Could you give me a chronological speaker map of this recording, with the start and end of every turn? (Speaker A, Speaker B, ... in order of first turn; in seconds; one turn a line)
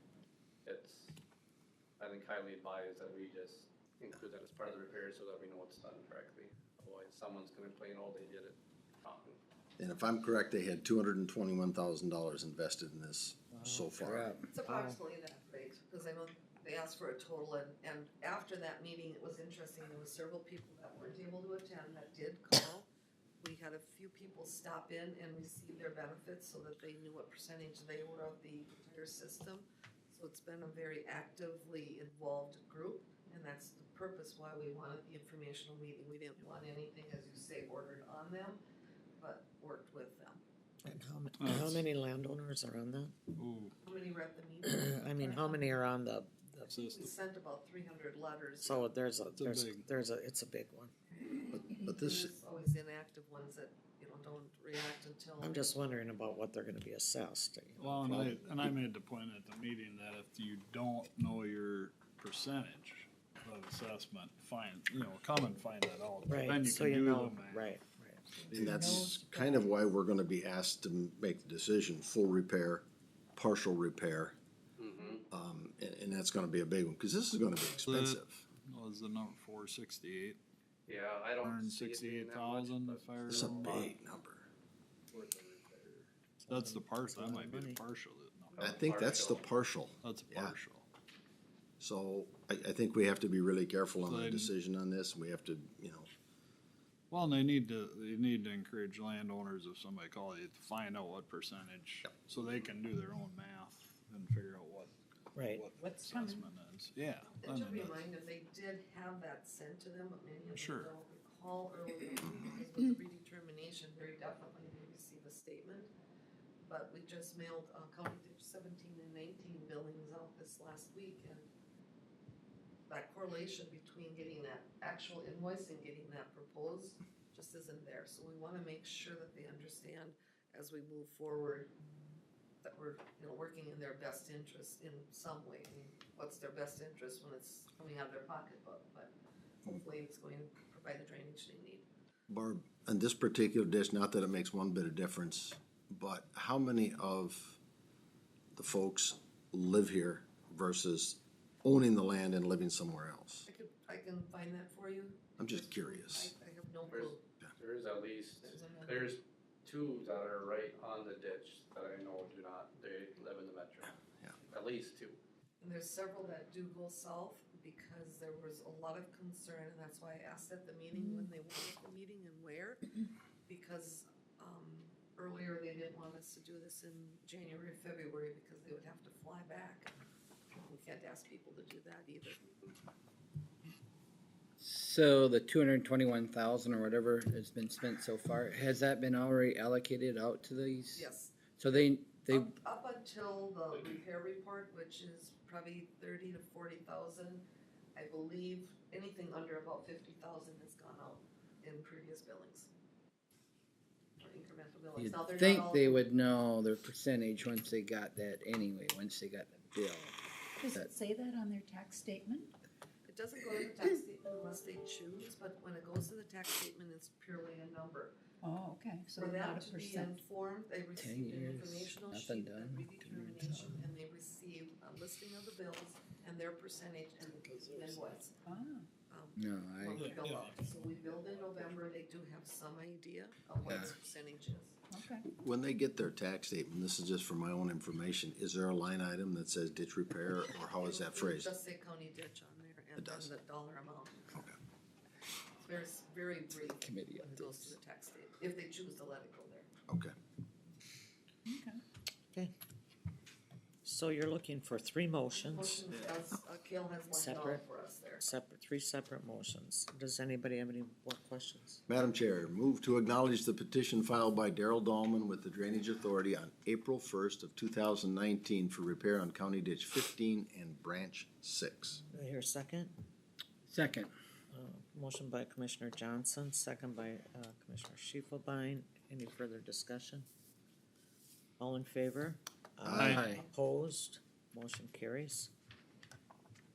Speaker A: 0.7-1.1
Speaker A: 2.0-9.4
Speaker B: 9.8-14.3
Speaker C: 13.6-13.9
Speaker D: 14.0-14.5
Speaker E: 14.5-22.9
Speaker C: 14.7-14.9
Speaker E: 23.4-38.6
Speaker E: 39.2-40.4
Speaker C: 40.8-43.2
Speaker F: 41.4-41.9
Speaker F: 43.4-43.8
Speaker E: 43.8-45.0
Speaker C: 44.6-46.8
Speaker F: 46.7-47.1
Speaker E: 46.8-48.9
Speaker C: 48.6-50.9
Speaker F: 49.4-49.9
Speaker B: 51.5-52.3
Speaker E: 51.7-55.7
Speaker C: 55.4-58.3
Speaker F: 57.8-67.8
Speaker B: 58.0-58.7
Speaker C: 66.2-68.5
Speaker B: 68.5-72.8
Speaker G: 68.6-69.7
Speaker B: 73.4-74.4
Speaker A: 74.8-75.2
Speaker B: 75.3-78.5
Speaker F: 77.9-80.4
Speaker A: 80.9-83.9
Speaker F: 81.4-83.9
Speaker B: 83.3-84.5
Speaker A: 85.1-85.9
Speaker F: 85.9-88.8
Speaker C: 86.4-87.8
Speaker A: 88.5-89.5
Speaker B: 88.6-90.6
Speaker F: 90.0-90.9
Speaker B: 91.8-96.1
Speaker F: 94.0-94.5
Speaker F: 97.1-108.0
Speaker C: 105.3-105.7
Speaker G: 105.8-106.5
Speaker E: 107.3-115.9
Speaker F: 110.5-110.9
Speaker E: 116.6-121.5
Speaker E: 122.9-131.7
Speaker E: 132.6-139.1
Speaker E: 139.7-141.9
Speaker B: 142.3-147.6
Speaker B: 148.5-153.5
Speaker E: 153.5-157.2
Speaker B: 155.4-156.3
Speaker A: 156.9-165.2
Speaker E: 158.4-159.1
Speaker E: 165.6-179.9
Speaker G: 170.9-171.2
Speaker E: 180.5-182.5
Speaker D: 184.6-192.5
Speaker E: 190.9-191.5
Speaker E: 192.3-202.7
Speaker E: 204.2-206.1
Speaker D: 205.0-210.9
Speaker G: 210.6-212.5
Speaker E: 213.1-218.2
Speaker G: 218.4-220.2
Speaker E: 219.2-228.3
Speaker D: 221.0-223.8
Speaker G: 228.4-228.9
Speaker E: 229.1-234.8
Speaker D: 229.4-230.1
Speaker F: 230.0-231.7
Speaker D: 233.7-233.9
Speaker G: 234.9-235.2
Speaker B: 235.3-241.5
Speaker E: 240.8-244.3
Speaker B: 243.0-243.3
Speaker E: 245.6-249.7
Speaker D: 246.7-247.8
Speaker B: 249.9-250.2
Speaker G: 251.5-251.8
Speaker C: 253.8-255.9
Speaker E: 255.3-258.2
Speaker C: 257.1-257.6
Speaker C: 258.2-261.8
Speaker B: 261.9-272.0
Speaker C: 272.1-272.9
Speaker D: 273.7-274.1
Speaker C: 274.5-280.3
Speaker C: 281.6-285.5
Speaker B: 282.8-283.2
Speaker D: 283.0-283.4